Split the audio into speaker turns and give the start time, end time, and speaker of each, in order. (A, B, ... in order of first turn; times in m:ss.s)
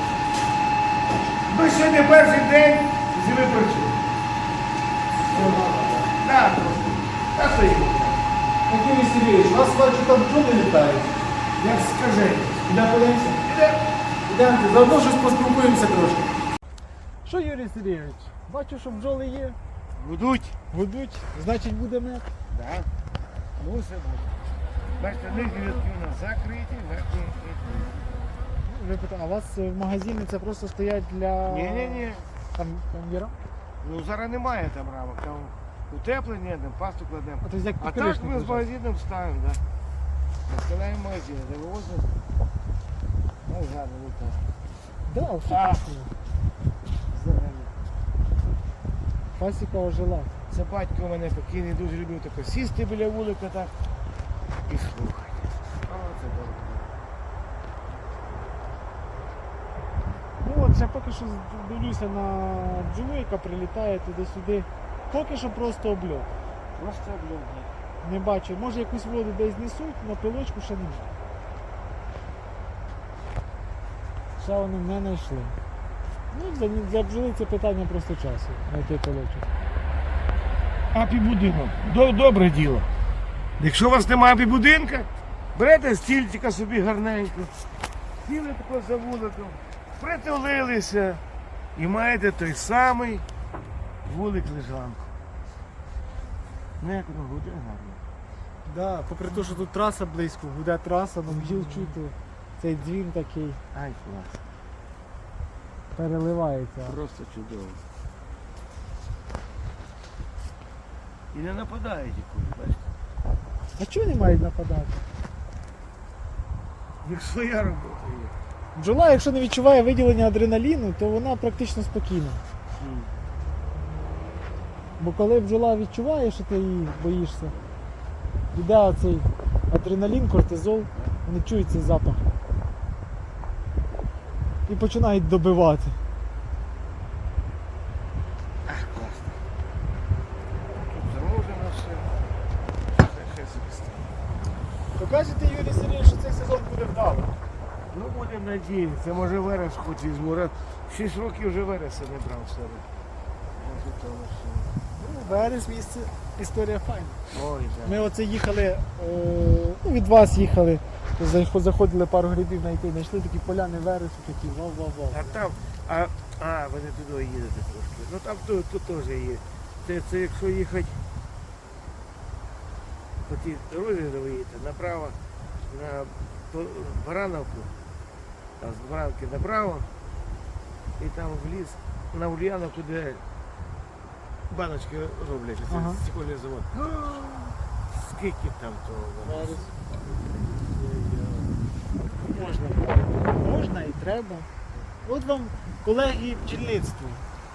0:01.5-0:04.0 A
0:05.3-0:08.2 A
0:05.3-0:05.7 B
0:08.7-0:11.1 B
0:11.6-0:12.6 A
0:12.7-0:13.4 B
0:13.4-0:13.8 A
0:14.2-0:16.3 B
0:17.2-0:19.6 B
0:20.0-0:20.6 A
0:20.7-0:22.2 B
0:22.5-0:22.9 A
0:23.6-0:24.3 A
0:25.0-0:28.0 A
0:28.6-0:33.3 B
0:31.5-0:32.2 A
0:33.8-0:39.6 A
0:37.4-0:38.7 B
0:40.5-0:42.1 A
0:43.4-0:44.4 A
0:45.1-0:46.1 B
0:45.5-0:45.9 A
0:47.1-0:47.7 A
0:49.4-0:50.3 B
0:50.5-0:53.7 A
0:54.7-0:56.9 A
1:00.4-1:06.3 B
1:06.8-1:07.7 A
1:08.0-1:11.1 B
1:14.4-1:15.5 B
1:16.3-1:19.5 B
1:20.9-1:22.9 A
1:23.6-1:27.5 A
1:28.2-1:31.2 A
1:31.8-1:33.2 A
1:34.1-1:35.1 A
1:36.8-1:38.0 A
1:38.6-1:43.6 B
1:41.3-1:41.9 A
1:43.7-1:44.4 A
1:45.9-1:47.0 B
1:46.8-1:47.8 A
1:51.3-1:52.8 A
1:53.8-1:55.0 B
1:57.0-1:58.3 A
1:58.8-2:02.4 B
2:02.8-2:03.1 A
2:05.0-2:07.5 B
2:08.5-2:12.2 B
2:14.7-2:15.9 B
2:18.6-2:19.3 A
2:20.8-2:22.1 A
2:22.9-2:24.1 A
2:25.0-2:27.3 B
2:27.9-2:32.8 A
2:33.5-2:34.7 A
2:34.9-2:37.2 B
2:37.3-2:38.0 A
2:37.8-2:45.4 B
2:45.1-2:51.0 A
2:53.3-2:55.2 A
2:55.7-2:57.7 A
2:58.6-2:59.9 A
3:01.0-3:03.2 A
3:04.5-3:09.6 A
3:05.7-3:06.0 B
3:09.2-3:11.5 B
3:12.1-3:14.5 B
3:15.0-3:17.2 B